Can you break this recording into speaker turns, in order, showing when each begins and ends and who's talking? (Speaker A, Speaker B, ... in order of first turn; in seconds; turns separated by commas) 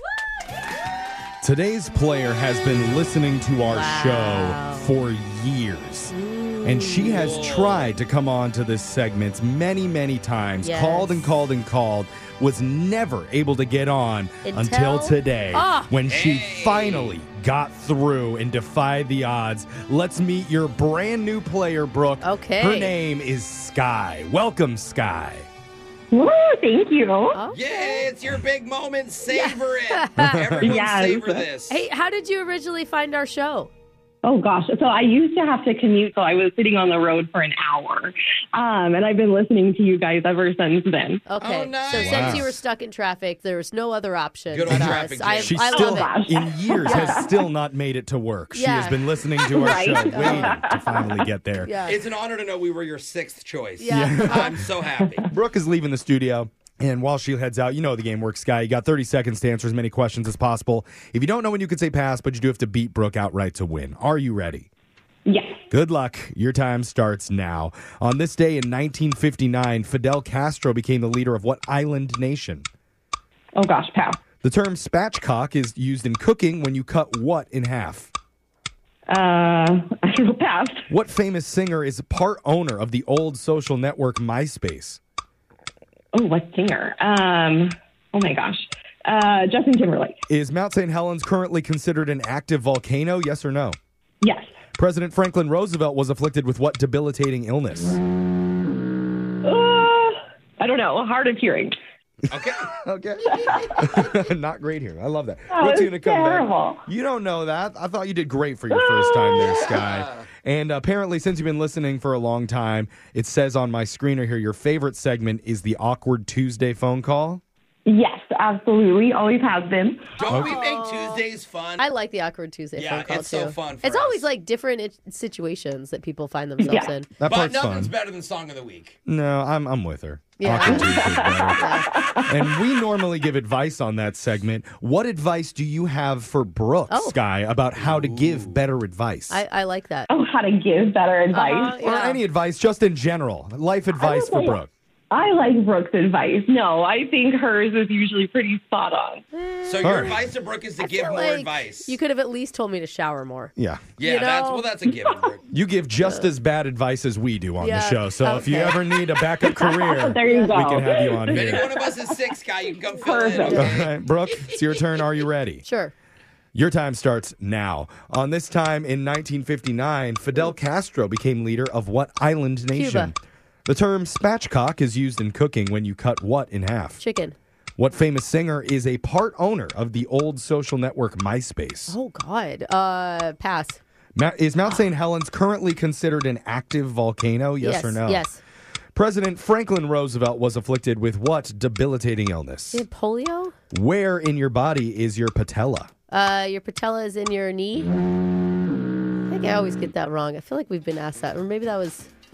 Speaker A: 1.4-25.5, Speaker B: 3.7-4.9, Speaker B: 6.1-7.2, Speaker C: 7.1-7.9, Speaker B: 10.6-11.3, Speaker B: 14.4-15.9, Speaker C: 16.1-17.1, Speaker B: 22.2-22.9, Speaker D: 26.1-27.4, Speaker B: 27.3-28.1, Speaker C: 27.5-31.8, Speaker B: 29.3-30.4, Speaker A: 30.2-30.8, Speaker D: 30.6-31.4, Speaker B: 31.7-33.7, Speaker D: 34.2-41.2, Speaker B: 41.3-46.1, Speaker C: 41.4-42.5, Speaker A: 41.9-42.6, Speaker C: 44.5-45.6, Speaker A: 44.7-51.8, Speaker D: 45.7-47.3, Speaker B: 46.8-47.2, Speaker B: 48.5-49.0, Speaker D: 49.5-51.1, Speaker B: 50.0-50.6, Speaker B: 51.6-52.0, Speaker C: 51.8-55.3, Speaker B: 53.8-54.6, Speaker A: 53.9-54.6, Speaker A: 55.3-64.7, Speaker D: 65.2-65.6, Speaker A: 65.7-72.7, Speaker D: 73.5-74.2, Speaker A: 74.4-78.1, Speaker D: 79.1-80.9, Speaker A: 80.9-85.0, Speaker D: 86.1-90.2, Speaker A: 90.3-93.8, Speaker D: 94.2-94.6, Speaker A: 94.8-98.0, Speaker D: 99.4-101.7, Speaker C: 102.3-102.7, Speaker A: 102.7-117.4, Speaker D: 103.3-103.9, Speaker D: 105.5-106.8, Speaker D: 108.7-109.8, Speaker C: 109.6-110.2, Speaker D: 117.8-120.1, Speaker C: 120.2-121.8, Speaker B: 120.3-121.2, Speaker A: 120.3-120.6, Speaker B: 121.8-127.1, Speaker C: 122.8-124.3, Speaker D: 126.6-126.9, Speaker A: 127.2-127.9, Speaker C: 127.2-128.9, Speaker A: 129.1-139.4, Speaker B: 130.4-130.9, Speaker D: 130.6-132.3, Speaker B: 131.5-131.9, Speaker B: 136.9-137.2, Speaker C: 137.7-138.6, Speaker B: 139.3-140.1, Speaker D: 140.1-141.8, Speaker B: 141.3-142.2, Speaker A: 141.8-144.7, Speaker D: 144.0-144.6, Speaker D: 145.1-149.2, Speaker B: 149.3-154.8, Speaker C: 149.6-152.0, Speaker A: 149.8-150.2, Speaker A: 153.6-153.9, Speaker C: 154.0-155.4, Speaker A: 155.5-161.7, Speaker B: 156.0-156.3, Speaker B: 157.6-158.8, Speaker D: 159.4-162.1, Speaker B: 160.3-160.9, Speaker C: 161.3-163.9, Speaker D: 163.0-163.7, Speaker B: 163.4-163.8, Speaker A: 163.5-165.6, Speaker B: 165.6-165.9, Speaker A: 166.5-173.1, Speaker B: 172.7-173.1, Speaker A: 173.7-177.0, Speaker B: 177.0-177.3, Speaker A: 177.8-181.9, Speaker B: 181.9-183.8, Speaker A: 184.1-188.3, Speaker B: 187.6-188.4, Speaker A: 188.9-192.8, Speaker B: 192.7-193.5, Speaker A: 193.7-195.9, Speaker B: 196.1-197.9, Speaker B: 199.3-202.1